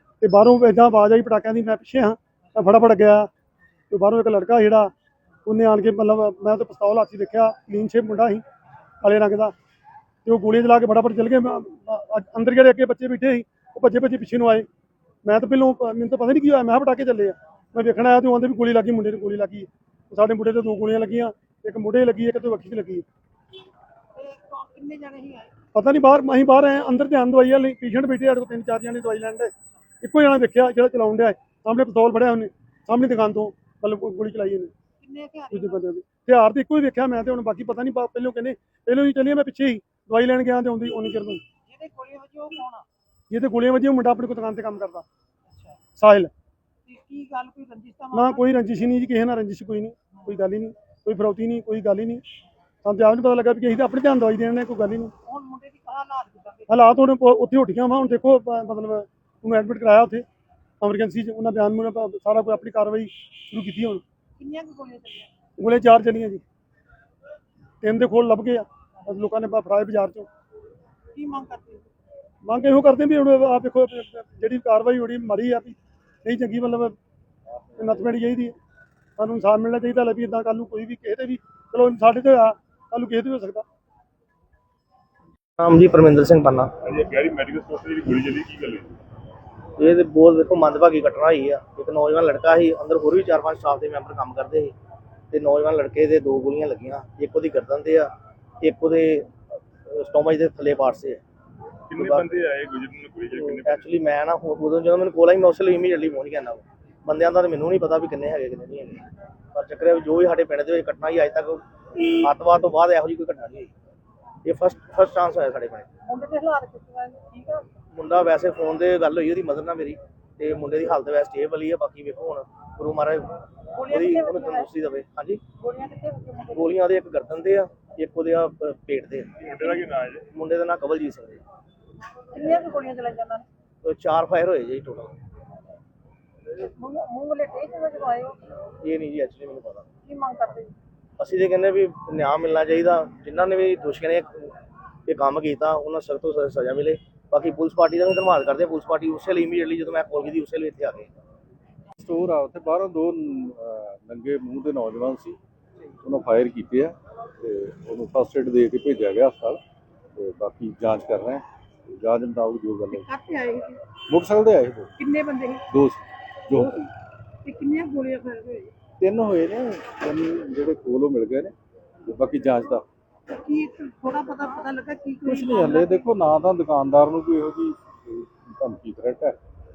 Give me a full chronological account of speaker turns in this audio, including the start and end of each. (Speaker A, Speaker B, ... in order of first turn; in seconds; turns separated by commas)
Speaker A: 0.2-3.3, Speaker A: 3.9-4.9, Speaker A: 5.5-8.4, Speaker A: 9.0-9.5, Speaker A: 10.2-14.7, Speaker A: 15.2-23.1, Speaker B: 24.2-25.5, Speaker A: 25.7-29.5, Speaker A: 30.0-34.7, Speaker B: 35.0-35.8, Speaker A: 35.5-41.4, Speaker B: 41.7-42.9, Speaker A: 43.3-45.1, Speaker A: 46.0-46.3, Speaker B: 46.9-48.5, Speaker A: 48.1-52.2, Speaker A: 52.9-55.1, Speaker B: 55.2-56.7, Speaker A: 56.7-60.2, Speaker A: 60.8-64.0, Speaker B: 64.4-65.3, Speaker A: 65.6-66.4, Speaker A: 67.8-70.3, Speaker B: 71.1-71.9, Speaker A: 72.5-77.0, Speaker A: 77.8-78.6, Speaker A: 79.2-83.7, Speaker C: 85.6-86.7, Speaker D: 86.8-89.0, Speaker C: 89.8-94.7, Speaker C: 95.3-99.3, Speaker C: 99.9-101.2, Speaker D: 101.9-103.9, Speaker C: 102.0-102.3, Speaker C: 103.3-113.7, Speaker C: 114.4-115.9, Speaker B: 116.1-117.7, Speaker C: 117.9-123.3, Speaker B: 123.8-124.7, Speaker C: 123.9-125.4, Speaker B: 125.6-126.7, Speaker C: 126.5-129.3, Speaker D: 129.4-130.3, Speaker C: 130.3-131.4, Speaker B: 132.3-133.5, Speaker C: 133.8-135.2, Speaker B: 136.5-138.6, Speaker C: 138.8-139.9, Speaker B: 140.1-140.7, Speaker C: 141.2-144.5, Speaker C: 145.1-151.1, Speaker E: 152.0-155.4, Speaker E: 156.0-159.6, Speaker E: 160.2-163.1, Speaker B: 162.9-163.8, Speaker E: 164.1-165.0, Speaker B: 165.0-165.7, Speaker E: 165.7-166.9, Speaker B: 166.5-166.8, Speaker B: 167.4-168.7, Speaker E: 169.0-171.5, Speaker E: 172.1-172.8, Speaker B: 173.3-176.1, Speaker E: 175.2-179.4